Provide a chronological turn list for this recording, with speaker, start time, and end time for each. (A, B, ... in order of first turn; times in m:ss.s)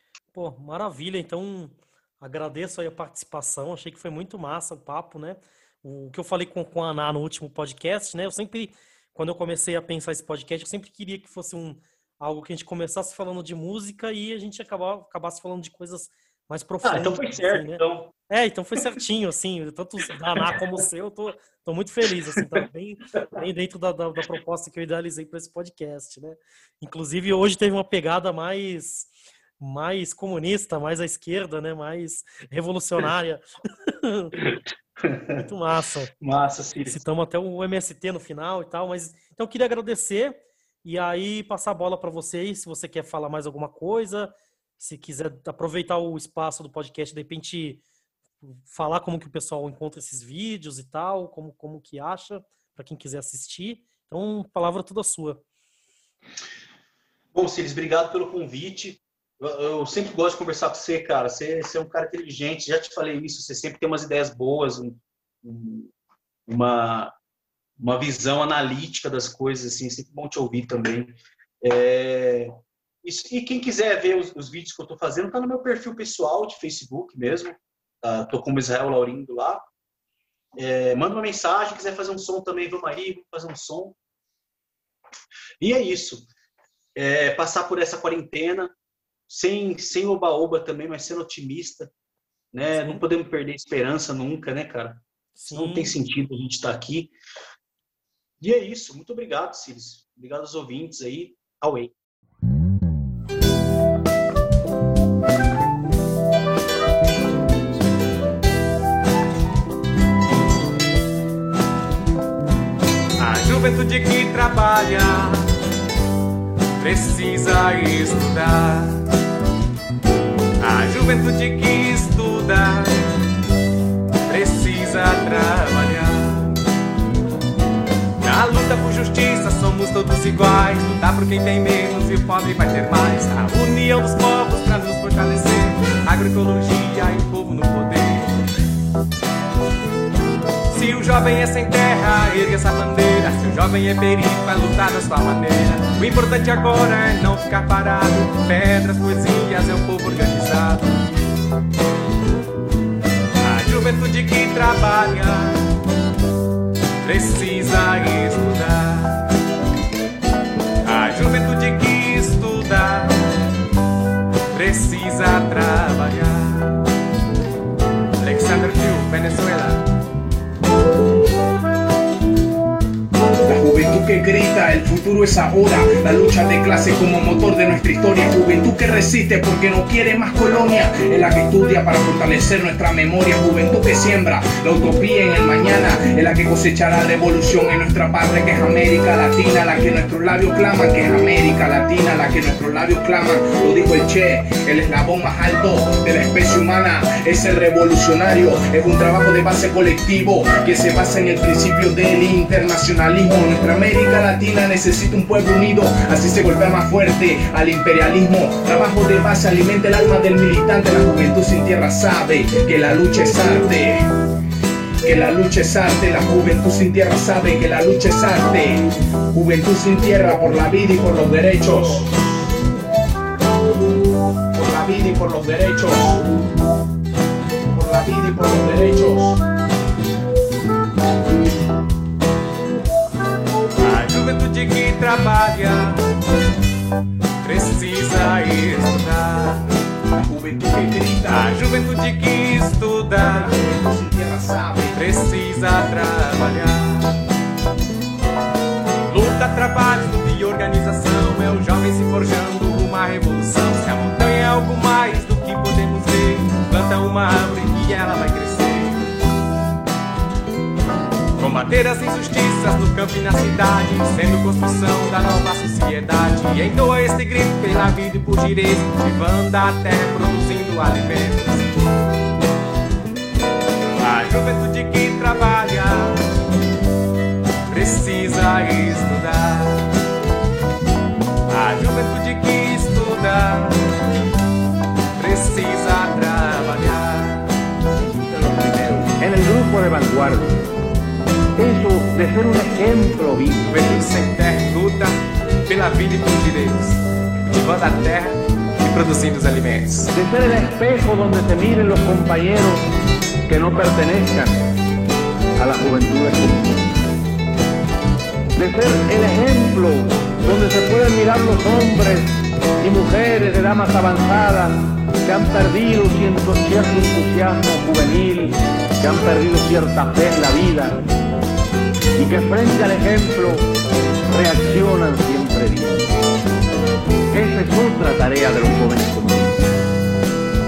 0:00.3-0:34.4 A
0:16.8-0:18.1 B
0:34.4-0:35.4 B
0:35.4-0:36.1 A
0:36.2-0:37.0 B
0:36.8-0:47.8 A
0:48.4-0:55.4 A
0:57.3-1:05.9 B
1:06.5-1:07.1 B
1:07.8-1:19.7 B
1:20.6-1:24.0 B
1:25.6-1:26.3 B
1:27.0-1:28.7 B
1:29.3-1:31.9 B
1:32.5-1:37.1 B
1:32.7-1:33.0 A
1:35.4-1:35.9 A
1:38.4-1:41.9 B
1:53.2-1:55.5 C
1:56.8-1:59.1 C
2:00.6-2:03.0 C
2:04.3-2:06.6 C
2:08.2-2:18.4 C
2:20.7-2:31.0 C
2:33.4-2:35.6 C
2:37.0-2:39.3 C
2:40.8-2:43.2 C
2:44.5-2:46.8 C
2:48.2-2:49.8 C
2:53.4-3:34.0 D
3:35.0-3:42.1 D
3:44.5-3:46.2 D
3:47.7-3:49.4 D
3:53.8-3:56.0 C
3:57.4-3:59.7 C
4:00.2-4:01.5 D
4:01.2-4:03.5 C
4:03.2-4:05.0 D
4:04.9-4:07.2 C
4:09.1-4:19.1 C
4:21.4-4:31.7 C
4:34.0-4:36.2 C
4:37.7-4:39.9 C
4:41.5-4:43.8 C
4:45.2-4:47.5 C
4:48.0-4:50.6 E
4:51.6-4:53.7 E
4:53.7-5:00.1 C
5:00.1-5:02.8 E
5:03.5-5:04.6 E
5:05.6-5:07.0 E
5:08.6-5:21.0 E
5:22.1-5:23.7 E
5:24.3-5:26.1 E
5:27.3-5:29.6 E